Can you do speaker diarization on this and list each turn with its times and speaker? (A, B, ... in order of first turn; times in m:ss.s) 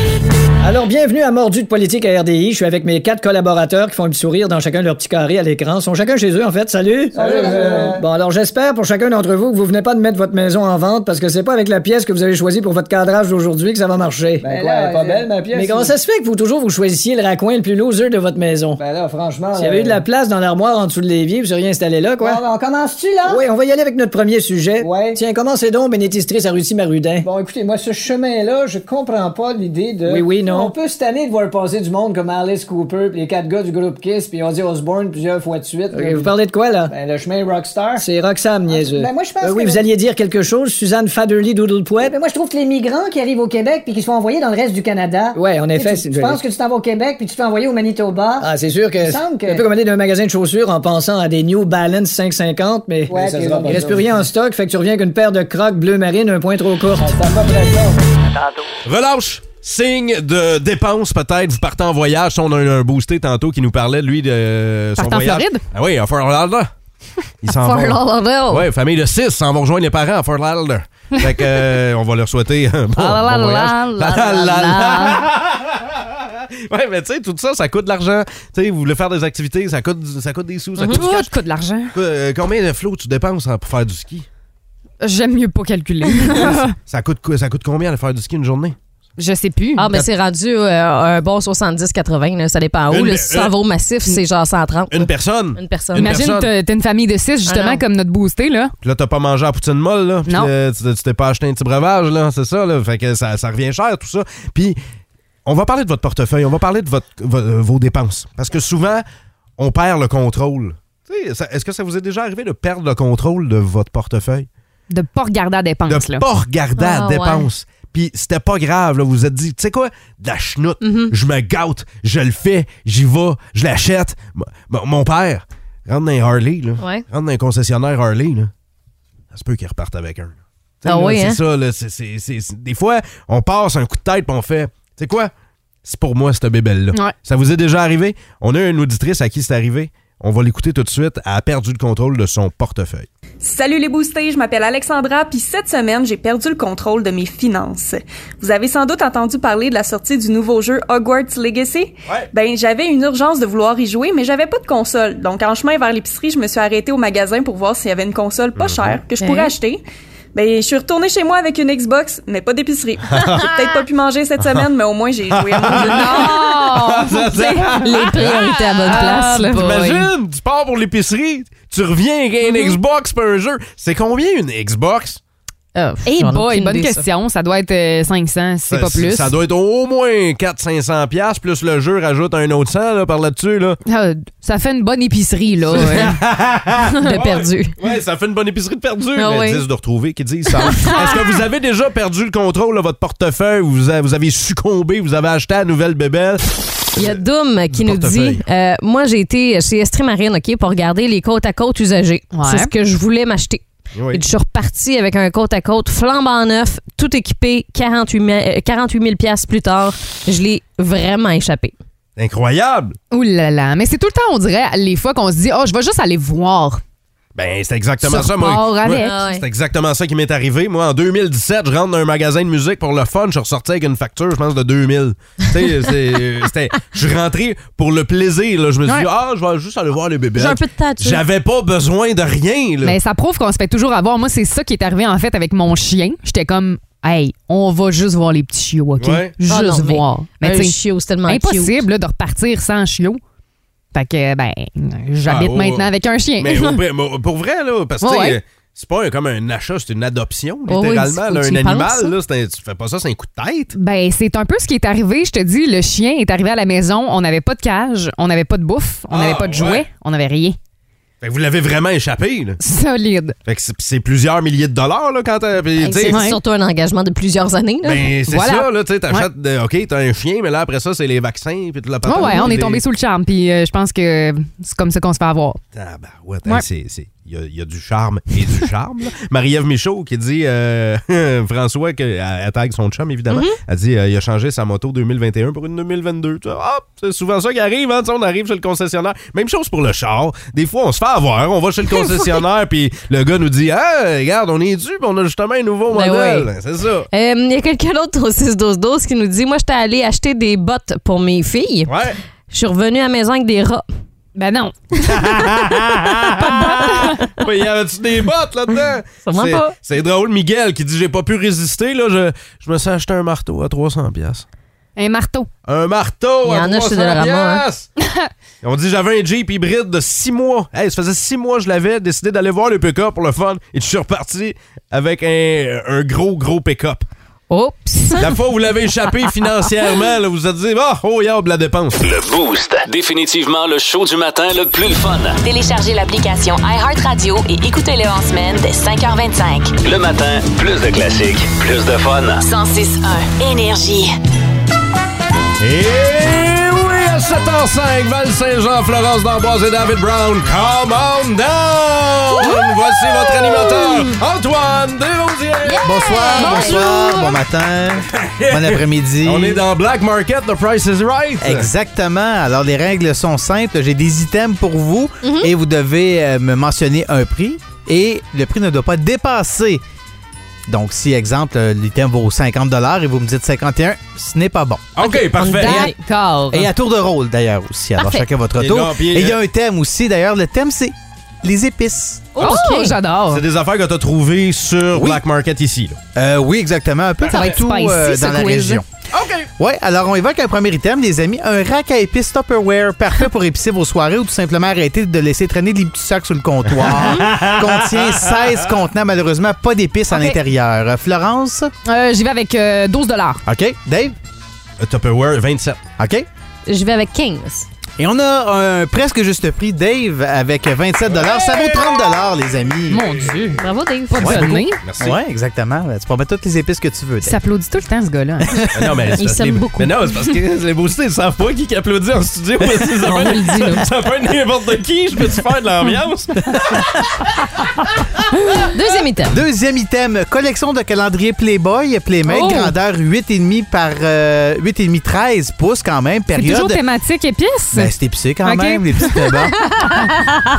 0:00.6-0:18.8 A
0:07.1-0:08.0 B
0:14.4-0:15.9 B
0:18.8-0:20.0 B
0:19.5-0:22.4 A
0:22.2-0:23.4 B
0:23.3-0:27.2 A
0:24.8-0:25.2 B
0:27.2-0:36.3 B
0:30.1-0:30.7 A
0:35.9-0:36.9 A
0:36.9-0:38.0 B
0:38.0-0:42.1 A
0:38.7-0:39.9 B
0:42.0-0:49.7 B
0:45.4-0:46.4 A
0:48.4-0:57.2 A
0:53.1-0:54.2 B
0:57.0-0:58.1 B
0:58.8-1:06.7 C
1:05.0-1:05.6 D
1:07.4-1:21.3 C
1:07.4-1:08.7 E
1:12.9-1:15.2 E
1:20.9-1:21.9 D
1:21.9-1:24.3 C
1:25.0-1:26.7 D
1:26.9-1:28.8 C
1:29.2-1:30.0 D
1:29.8-1:36.2 E
1:32.9-1:33.5 C
1:34.9-1:36.5 C
1:36.0-1:38.7 D
1:37.4-1:37.8 E
1:38.8-1:44.8 C
1:45.4-1:49.0 C
1:49.6-1:54.5 C
1:54.9-1:56.2 D
1:55.9-2:08.5 C
1:56.8-1:57.5 E
2:00.8-2:01.1 E
2:06.8-2:07.0 E
2:09.3-2:15.3 C
2:10.8-2:11.4 E
2:15.8-2:23.1 C
2:23.4-2:39.8 F
2:38.6-2:39.0 C
2:39.2-2:39.5 E
2:40.4-2:46.2 F
2:43.1-2:43.5 C
2:45.3-2:55.2 C
2:45.9-2:46.6 E
2:46.0-2:47.7 D
2:47.7-2:50.0 E
2:48.8-2:50.0 D
2:55.8-2:57.0 E
2:56.0-2:59.3 D
2:58.7-3:03.8 C
3:03.9-3:06.2 D
3:05.7-3:18.4 C
3:07.0-3:07.7 E
3:09.1-3:09.6 E
3:10.6-3:11.1 E
3:17.0-3:31.7 E
3:22.3-3:22.7 D
3:23.9-3:24.2 C
3:32.2-3:33.0 C
3:33.1-3:36.8 D
3:37.4-3:53.0 C
3:38.0-3:39.2 D
3:38.9-3:39.4 E
3:50.4-3:51.2 E
3:52.8-4:03.2 D
3:59.0-3:59.3 C
3:59.4-4:01.8 E
4:03.9-4:06.7 D
4:05.2-4:13.7 C
4:08.0-4:08.4 D
4:10.7-4:12.1 E
4:13.7-4:20.6 D
4:19.1-4:19.8 C
4:21.2-4:22.6 C
4:22.6-4:23.4 D
4:23.4-4:26.2 C
4:25.8-4:28.1 E
4:26.1-4:26.4 D
4:27.8-4:32.8 C
4:28.3-4:29.3 D
4:32.0-4:35.6 D
4:32.2-4:32.5 E
4:35.7-4:57.1 C
4:43.3-4:43.6 E
4:51.9-4:52.4 E
4:55.9-4:56.5 E
4:57.1-5:02.0 E
5:01.9-5:02.2 C
5:02.5-5:03.8 E
5:04.4-5:05.3 D
5:05.1-5:14.4 C
5:06.4-5:07.1 D
5:09.2-5:09.7 E
5:15.0-5:15.5 D
5:15.6-5:17.9 C
5:16.4-5:17.6 E
5:18.6-5:27.0 C
5:27.5-5:28.3 E
5:28.2-5:32.0 C
5:32.0-5:35.4 G
5:35.4-5:39.7 H
5:39.8-5:42.4 G
5:42.4-5:44.1 H
5:45.6-5:55.8 C
5:52.4-5:54.1 E
5:55.6-5:57.2 E
5:55.8-5:59.6 I
5:56.6-5:57.0 D
5:58.1-6:01.7 C
6:01.4-6:09.8 I
6:05.2-6:05.5 E
6:10.7-6:14.9 I
6:15.0-6:15.9 C
6:15.0-6:15.9 E
6:15.4-6:16.7 D
6:16.5-6:22.5 I
6:18.0-6:18.2 D
6:18.6-6:19.4 C
6:22.4-6:23.0 E
6:22.4-6:23.4 D
6:23.3-6:26.0 C
6:24.9-6:25.2 I
6:26.1-6:28.9 I
6:27.2-6:28.8 D
6:29.1-6:29.5 C
6:29.6-6:41.7 I
6:36.8-6:38.4 C
6:40.1-6:40.4 D
6:41.9-6:43.4 D
6:43.4-6:44.2 I
6:44.8-6:45.8 C
6:46.0-6:46.3 I
6:46.7-6:47.7 E
6:48.0-6:53.0 I
6:52.9-6:54.8 D
6:53.6-6:54.5 E
6:54.2-6:55.2 C
6:55.0-6:57.4 I
6:57.2-6:58.5 D
6:58.7-7:06.9 C
6:59.1-7:00.3 E
7:02.9-7:03.9 E
7:08.7-7:09.4 E
7:09.3-7:16.8 I
7:12.3-7:12.7 D
7:16.3-7:17.9 D
7:17.7-7:19.6 I
7:18.4-7:19.1 D